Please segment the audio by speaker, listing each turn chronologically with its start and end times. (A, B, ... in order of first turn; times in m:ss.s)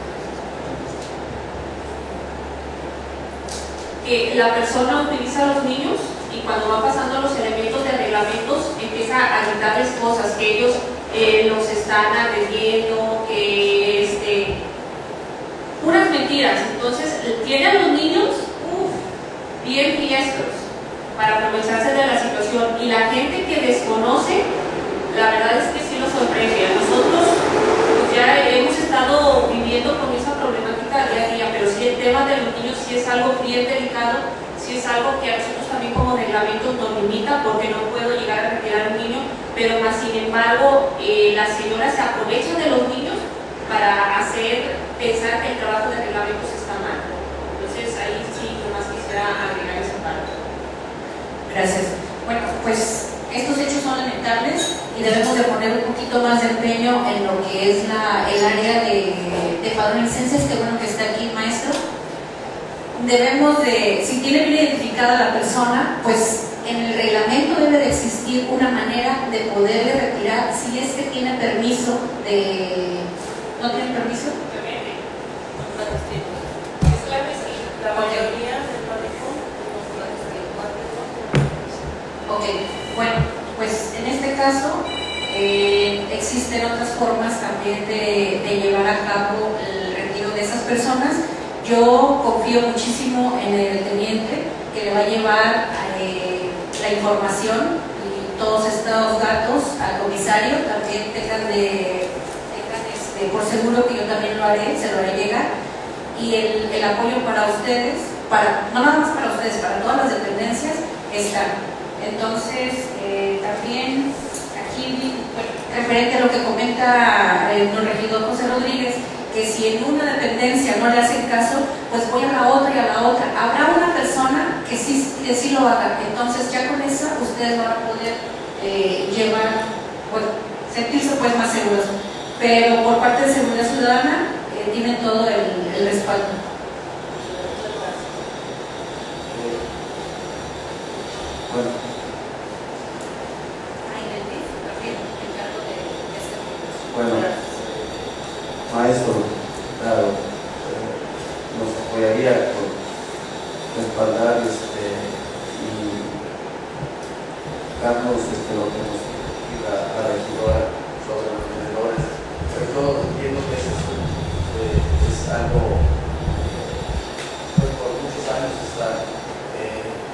0:04.0-0:14.6 A
0:15.8-0:19.0 A
0:19.6-0:24.5 A
0:25.1-0:27.4 A
0:27.9-0:50.3 A
0:51.4-1:01.8 B
1:02.9-1:14.4 B
1:14.4-1:15.0 A
1:15.6-1:16.5 C
1:16.8-1:18.4 A
1:17.7-1:21.8 C
1:22.3-1:45.5 B
1:46.1-2:16.4 B
2:17.1-2:18.4 C
2:19.3-2:19.6 D
2:19.5-2:20.1 C
2:20.9-2:21.2 C
2:21.5-2:21.8 D
2:23.8-2:26.8 B
2:24.4-2:25.0 C
2:26.8-2:27.6 C
2:26.9-2:27.2 D
2:28.7-2:32.8 D
2:33.7-2:36.1 D
2:37.8-2:46.9 D
2:47.5-2:50.0 D